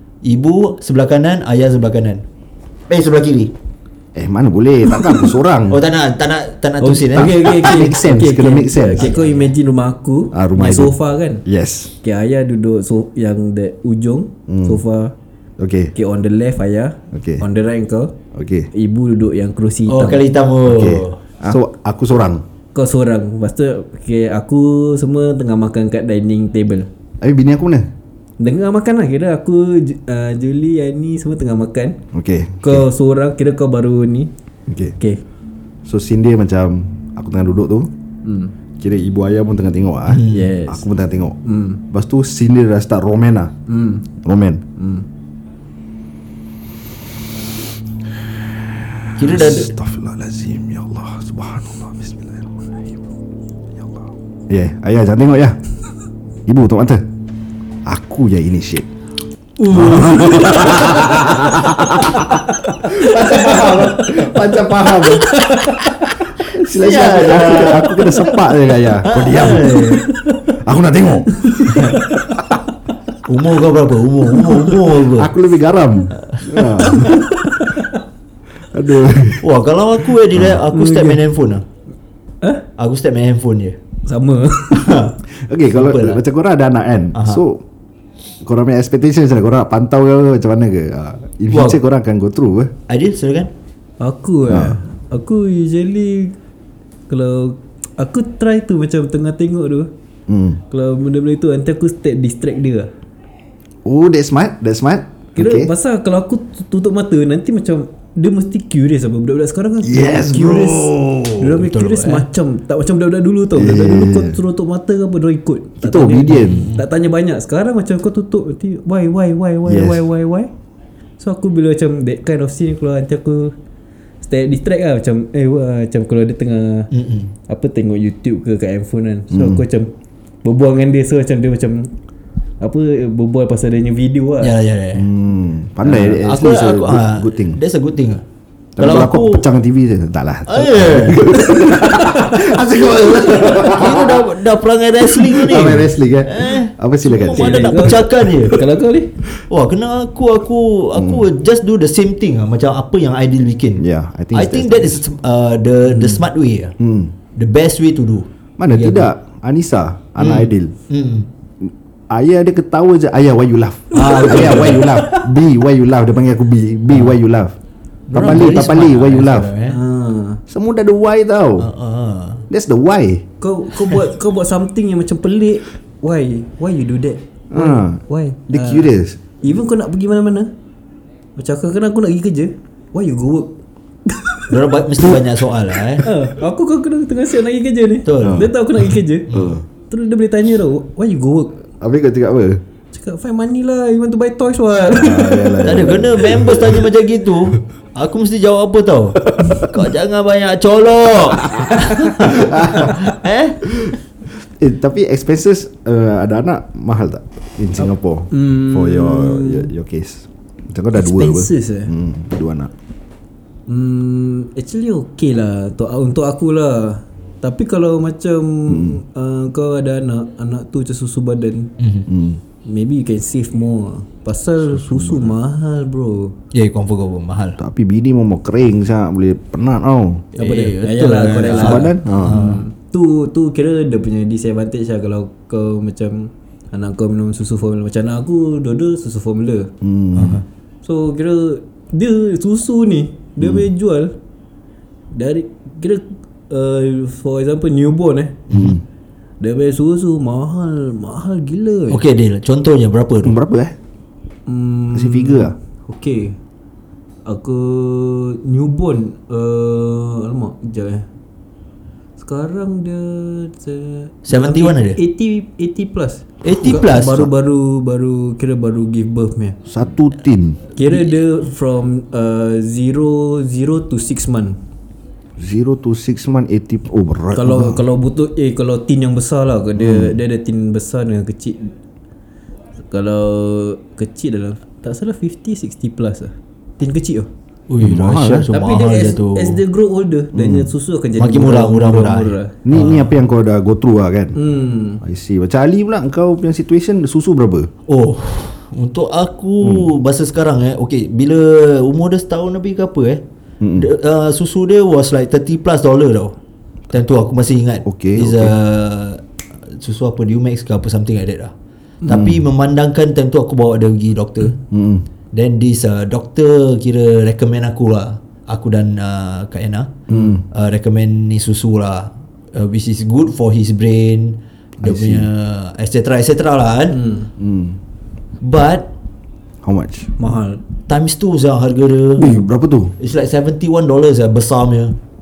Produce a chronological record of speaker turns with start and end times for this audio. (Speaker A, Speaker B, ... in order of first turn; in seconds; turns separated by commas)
Speaker A: 0.2-2.2, Speaker A: 2.9-3.5, Speaker B: 4.1-5.8, Speaker A: 5.7-7.5, Speaker C: 6.8-11.4, Speaker B: 7.1-9.1, Speaker A: 8.7-9.5, Speaker B: 10.3-11.9, Speaker C: 12.0-15.1, Speaker B: 14.5-14.8, Speaker B: 15.6-15.9, Speaker C: 15.9-18.1, Speaker B: 17.1-17.4, Speaker B: 18.3-18.7, Speaker C: 18.7-20.2, Speaker A: 19.9-21.2, Speaker B: 20.6-22.4, Speaker C: 22.7-26.9, Speaker B: 27.2-27.9, Speaker C: 28.4-32.0, Speaker B: 32.1-32.9, Speaker C: 32.6-34.3, Speaker B: 34.7-35.0, Speaker B: 35.8-37.9, Speaker C: 38.2-38.5, Speaker B: 38.8-41.4, Speaker A: 40.1-40.4, Speaker C: 40.2-40.9, Speaker C: 41.4-41.8, Speaker B: 41.9-43.5, Speaker C: 43.7-44.1, Speaker B: 44.2-44.6, Speaker C: 44.8-45.0, Speaker B: 48.6-53.0, Speaker A: 49.2-49.7, Speaker B: 53.8-55.6, Speaker B: 56.5-57.0, Speaker B: 57.8-58.9, Speaker C: 59.6-64.3, Speaker B: 59.7-65.4, Speaker C: 65.0-66.2, Speaker B: 66.4-69.9, Speaker A: 66.5-68.0, Speaker A: 69.0-70.0, Speaker C: 69.6-70.4, Speaker B: 70.5-71.6, Speaker C: 71.4-72.3, Speaker A: 71.7-72.0, Speaker A: 73.2-75.3, Speaker B: 75.0-77.3, Speaker A: 76.2-76.9, Speaker C: 76.8-78.0, Speaker B: 78.7-79.5, Speaker A: 79.4-81.6, Speaker B: 80.3-80.6, Speaker C: 80.7-81.2, Speaker A: 82.8-83.8, Speaker C: 84.0-85.1, Speaker A: 84.7-85.2, Speaker B: 85.4-87.6, Speaker A: 85.7-86.2, Speaker A: 87.1-87.4, Speaker B: 88.4-92.7, Speaker A: 91.5-91.8, Speaker A: 92.9-93.5, Speaker C: 94.0-96.3, Speaker B: 94.5-94.8, Speaker C: 97.1-99.9, Speaker B: 100.3-100.6, Speaker C: 100.7-102.9, Speaker B: 103.8-105.7, Speaker C: 105.3-120.5, Speaker B: 109.8-111.6, Speaker A: 111.6-112.2, Speaker B: 113.5-114.4, Speaker B: 115.8-116.7, Speaker A: 116.3-116.8, Speaker B: 119.7-120.0, Speaker C: 121.2-123.5, Speaker C: 124.2-126.9, Speaker A: 126.9-127.3, Speaker C: 127.5-129.9, Speaker B: 129.3-129.6, Speaker C: 130.4-131.9, Speaker C: 132.6-134.5, Speaker A: 134.4-135.1, Speaker B: 134.9-137.6, Speaker A: 135.8-138.2, Speaker B: 138.8-144.3, Speaker A: 138.8-139.4, Speaker A: 140.5-141.6, Speaker C: 141.4-142.4, Speaker A: 142.4-148.6, Speaker B: 145.2-148.1, Speaker C: 147.3-149.2, Speaker A: 149.5-156.8, Speaker B: 150.9-151.2, Speaker B: 153.8-155.0, Speaker B: 156.8-157.1, Speaker A: 157.3-159.1, Speaker B: 158.6-160.7, Speaker A: 160.2-161.3, Speaker B: 161.6-167.6, Speaker A: 163.9-165.1, Speaker C: 164.0-165.2, Speaker A: 166.9-167.2, Speaker A: 168.1-169.8, Speaker B: 168.1-169.5, Speaker C: 169.7-170.4, Speaker B: 170.5-171.7, Speaker A: 171.6-172.5, Speaker B: 172.5-173.2, Speaker C: 173.4-178.9, Speaker B: 177.5-179.2, Speaker C: 179.4-180.5, Speaker C: 181.3-183.6, Speaker C: 184.1-184.6, Speaker A: 184.5-186.0, Speaker C: 186.0-189.3, Speaker A: 188.0-188.5, Speaker B: 188.2-188.5, Speaker A: 189.3-189.6, Speaker B: 189.3-189.6, Speaker C: 189.9-191.6, Speaker B: 191.8-192.6, Speaker C: 192.9-195.9, Speaker B: 194.9-196.9, Speaker A: 195.6-203.7, Speaker C: 201.7-203.0, Speaker B: 202.2-202.9, Speaker B: 203.7-203.9, Speaker B: 204.6-212.7, Speaker C: 207.8-209.7, Speaker C: 210.9-211.9, Speaker C: 213.7-221.7, Speaker B: 218.7-219.0, Speaker A: 221.8-222.1, Speaker B: 222.1-222.4, Speaker C: 222.6-226.3, Speaker B: 224.7-225.3, Speaker A: 226.5-227.6, Speaker B: 227.6-230.2, Speaker A: 230.3-232.6, Speaker C: 230.4-239.7, Speaker B: 231.5-232.4, Speaker B: 239.8-240.4, Speaker A: 240.1-240.4, Speaker C: 240.8-244.1, Speaker B: 243.4-243.7, Speaker C: 245.1-248.5, Speaker A: 248.5-248.8, Speaker B: 248.5-248.8, Speaker C: 249.4-252.0, Speaker A: 251.9-253.3, Speaker B: 253.2-253.8, Speaker C: 254.5-256.4, Speaker B: 254.9-255.5, Speaker C: 257.2-261.1, Speaker C: 262.2-269.6, Speaker A: 264.2-265.0, Speaker A: 266.4-267.3, Speaker B: 269.6-270.6, Speaker C: 270.8-274.6, Speaker B: 275.4-277.8, Speaker C: 277.3-281.7, Speaker B: 279.8-280.2, Speaker C: 282.9-287.3, Speaker A: 287.7-289.6, Speaker B: 287.8-288.5, Speaker C: 288.5-292.6, Speaker B: 290.3-290.7, Speaker A: 291.2-293.1, Speaker B: 292.6-294.4, Speaker C: 294.3-295.0, Speaker B: 295.0-297.7, Speaker A: 297.9-303.2, Speaker B: 299.6-299.9, Speaker B: 303.6-303.9, Speaker A: 303.7-306.4, Speaker A: 306.9-311.5, Speaker B: 307.8-308.5, Speaker A: 312.1-314.6, Speaker B: 312.1-312.4, Speaker B: 314.6-315.1, Speaker A: 315.3-327.0, Speaker B: 320.1-320.4, Speaker B: 324.8-325.3, Speaker C: 326.9-327.3, Speaker B: 327.4-327.8, Speaker A: 328.4-328.9, Speaker B: 329.6-330.1, Speaker C: 330.2-330.6, Speaker A: 330.9-332.4, Speaker B: 332.1-332.9, Speaker A: 333.0-334.9